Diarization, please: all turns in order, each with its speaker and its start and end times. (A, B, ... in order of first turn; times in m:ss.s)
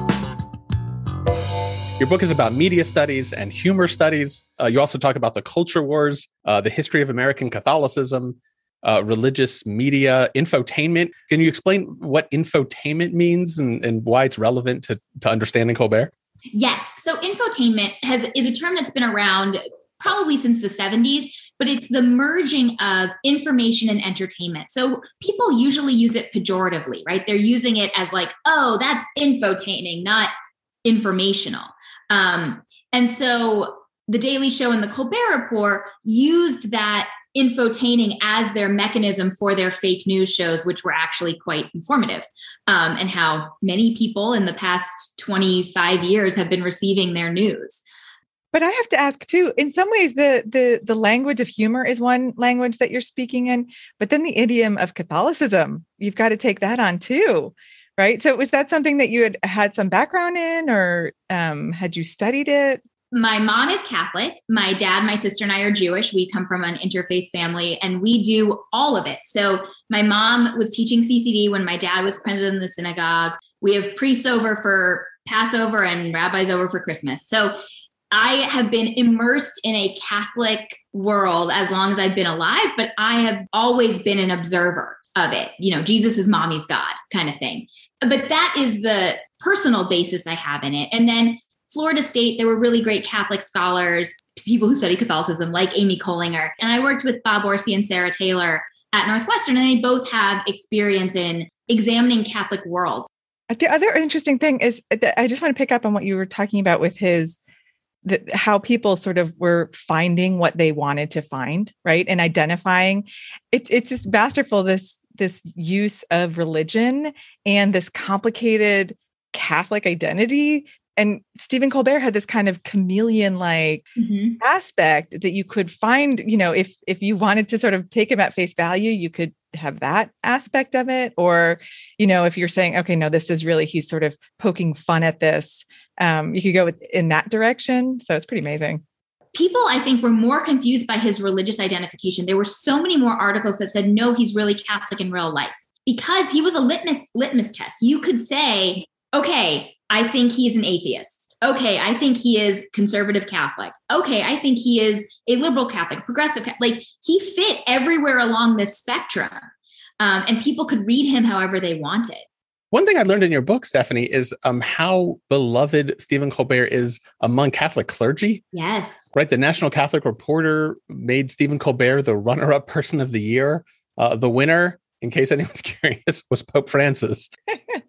0:02.0-0:16.1 A
0:16.5-0:30.3 B
0:30.8-0:47.8 B
0:48.5-1:02.8 C
1:03.1-1:17.6 B
1:18.1-1:43.1 B
1:43.5-1:47.4 C
1:48.0-2:03.8 C
2:04.0-2:04.4 B
2:04.4-2:18.8 C
2:19.3-2:42.2 B
2:42.7-2:48.4 A
2:48.5-2:49.0 B
2:49.1-2:57.3 A